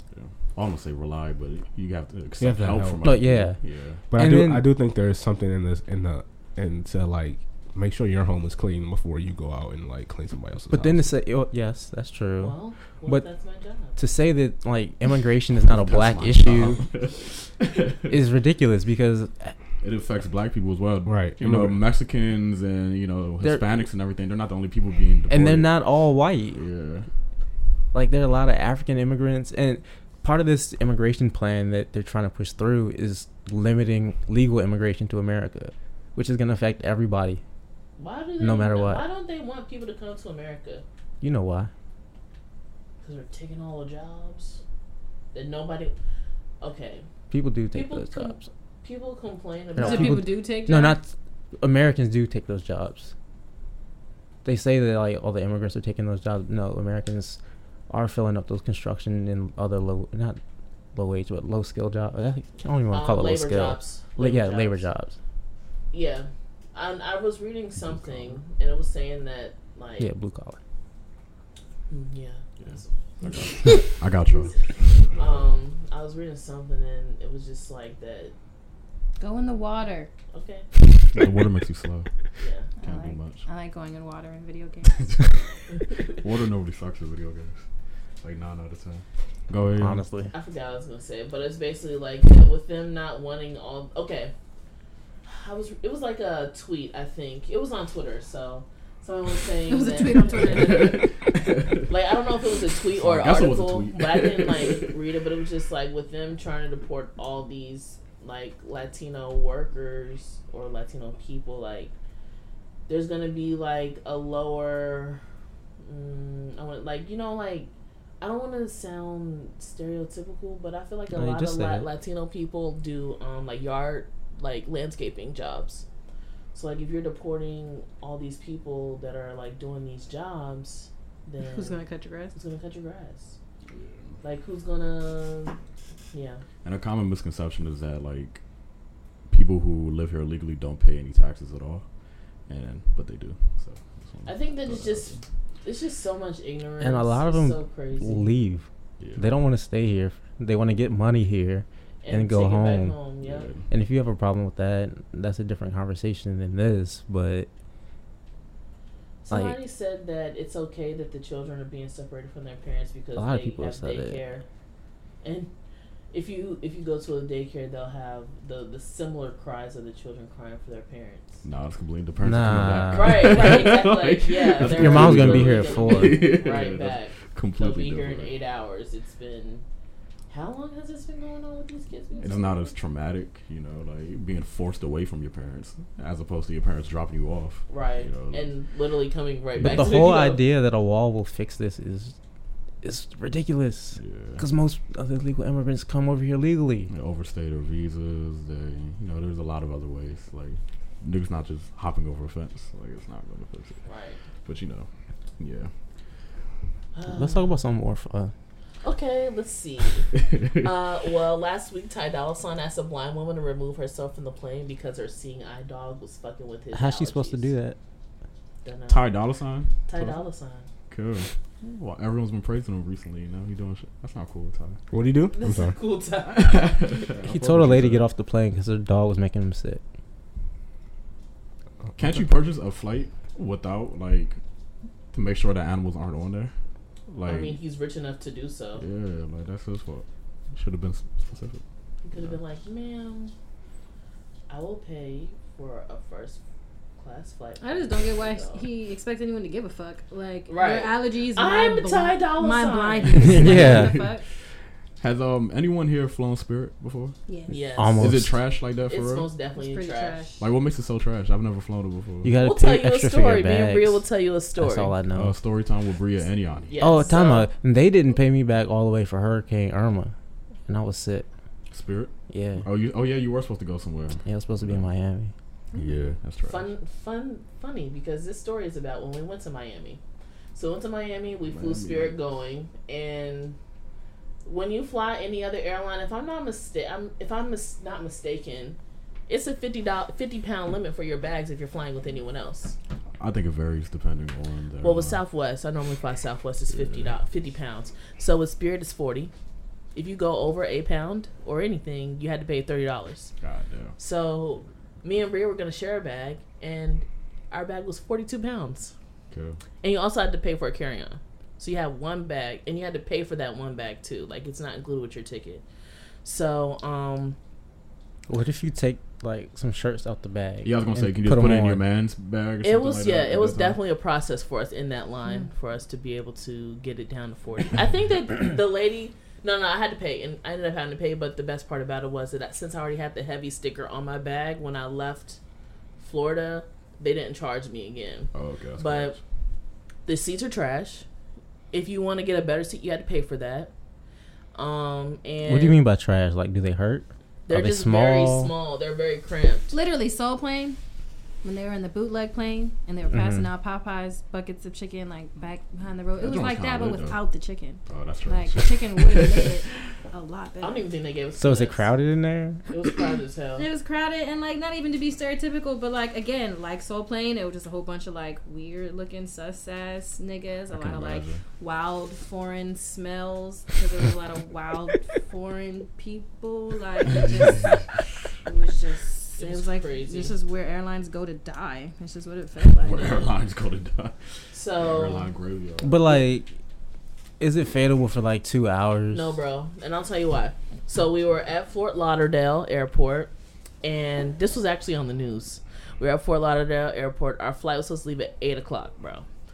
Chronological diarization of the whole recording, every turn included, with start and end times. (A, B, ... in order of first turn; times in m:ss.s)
0:00.1-0:04.0 A
0:02.4-0:03.1 B
0:03.0-0:03.6 C
0:04.1-0:11.1 B
0:04.1-0:04.7 C
0:10.7-0:13.3 C
0:12.4-0:14.0 D
0:14.0-0:16.9 C
0:15.6-0:18.1 A
0:18.1-0:19.6 C
0:19.8-0:25.7 A
0:21.1-0:21.8 B
0:23.4-0:23.8 C
0:25.3-0:26.6 C
0:26.5-0:27.1 A
0:27.9-0:37.4 C
0:38.0-0:40.8 D
0:38.4-0:39.0 C
0:41.2-0:41.7 C
0:43.0-0:44.6 D
0:45.3-0:46.0 D
0:46.6-0:47.1 D
0:47.3-0:48.5 C
0:47.7-0:50.3 D
0:49.8-0:51.0 E
0:49.8-0:53.1 C
0:54.4-1:00.4 C
1:00.9-1:05.2 C
1:02.9-1:04.9 D
1:05.9-1:10.1 D
1:07.8-1:08.4 A
1:10.0-1:10.6 C
1:11.9-1:14.6 D
1:12.6-1:15.5 A
1:15.2-1:18.3 D
1:19.2-1:20.1 E
1:20.3-1:20.7 D
1:20.8-1:22.1 A
1:22.4-1:22.7 D
1:22.8-1:25.3 E
1:22.8-1:23.4 A
1:24.9-1:25.2 A
1:26.1-1:27.6 A
1:28.2-1:30.0 A
1:29.8-1:30.3 C
1:30.3-1:34.3 D
1:35.2-1:41.1 D
1:39.7-1:41.0 E
1:40.4-1:41.9 A
1:41.9-1:51.9 D
1:42.9-1:44.9 A
1:52.9-1:55.2 D
1:55.8-1:57.7 D
1:58.2-2:05.8 D
2:01.1-2:01.9 C
2:06.5-2:13.4 D
2:11.4-2:12.4 E
2:13.7-2:14.2 A
2:14.2-2:15.6 D
2:16.1-2:16.4 D
2:16.6-2:18.4 A
2:19.3-2:21.9 A
2:22.5-2:25.2 A
2:24.3-2:25.1 D
2:25.6-2:28.3 D
2:26.8-2:33.0 C
2:29.0-2:29.3 A
2:32.0-2:33.5 D
2:33.2-2:33.7 A
2:33.7-2:37.5 C
2:39.2-2:44.4 D
2:39.3-2:39.6 C
2:43.2-2:44.2 C
2:45.2-2:45.5 D
2:46.1-2:51.4 D
2:51.4-2:58.3 A
2:52.2-2:53.6 C
2:52.9-2:59.6 D
2:54.6-2:56.3 C
3:00.3-3:02.8 D
3:02.2-3:08.5 A
3:07.7-3:10.4 D
3:09.6-3:09.9 A
3:09.6-3:12.2 C
3:12.8-3:16.9 C
3:14.0-3:14.4 A
3:16.9-3:23.8 A
3:23.8-3:24.2 D
3:24.4-3:24.9 A
3:25.4-3:25.7 A
3:26.9-3:27.6 D
3:27.1-3:28.3 C
3:28.8-3:37.5 D
3:36.7-3:37.8 C
3:38.6-3:39.2 D
3:38.9-3:40.1 A
3:39.9-3:40.7 D
3:40.9-3:44.8 A
3:44.9-3:45.8 B
3:45.3-3:47.0 D
3:46.3-3:48.1 A
3:47.3-3:49.8 C
3:52.0-3:54.4 A
3:55.1-3:56.5 A
3:57.1-3:57.6 A
3:57.2-3:58.8 D
3:58.8-4:01.6 A
4:02.0-4:03.3 D
4:04.5-4:06.4 D
4:07.0-4:08.7 D
4:07.6-4:14.2 E
4:10.5-4:13.8 D
4:13.2-4:14.1 C
4:15.0-4:17.2 A
4:17.3-4:17.5 E
4:17.5-4:18.2 D
4:17.6-4:18.4 C
4:18.0-4:19.3 A
4:18.9-4:20.3 D
4:19.5-4:20.4 E
4:20.4-4:22.3 A
4:22.2-4:24.0 C
4:22.4-4:24.9 D
4:24.6-4:25.4 C
4:25.1-4:26.8 A
4:26.7-4:27.5 D
4:26.8-4:30.1 C
4:30.7-4:31.3 C
4:31.7-4:34.9 A
4:32.3-4:32.7 C
4:34.2-4:35.3 C
4:35.7-4:36.0 E
4:35.8-4:36.7 A
4:36.4-4:40.0 D
4:40.5-4:43.6 D
4:41.4-4:42.2 A
4:44.4-4:52.8 D
4:53.2-4:55.2 A
4:54.8-4:59.3 D
4:56.7-4:57.1 A
5:00.0-5:03.3 D
5:03.4-5:04.0 A
5:04.0-5:09.0 D
5:09.3-5:09.6 A
5:09.8-5:15.6 D
5:16.2-5:17.4 D
5:18.3-5:21.8 C
5:20.6-5:23.8 A
5:22.6-5:35.4 D
5:36.0-5:39.2 D
5:38.3-5:39.2 A
5:40.1-5:41.0 D
5:41.7-5:43.7 D
5:44.6-5:45.8 D
5:45.5-5:48.5 C
5:47.5-5:49.7 D
5:49.7-5:50.8 E
5:51.4-6:00.9 E
5:53.1-5:53.5 C
5:56.2-5:57.2 A
5:57.9-5:59.8 A
6:00.6-6:01.9 D
6:01.4-6:02.6 C
6:02.7-6:03.7 D
6:03.6-6:23.3 E
6:10.7-6:11.4 A
6:19.4-6:20.4 D
6:22.8-6:24.2 A
6:24.5-6:25.3 D
6:24.8-6:26.2 A
6:25.8-6:26.5 C
6:27.4-6:29.4 C
6:29.1-6:33.3 D
6:33.8-6:39.3 D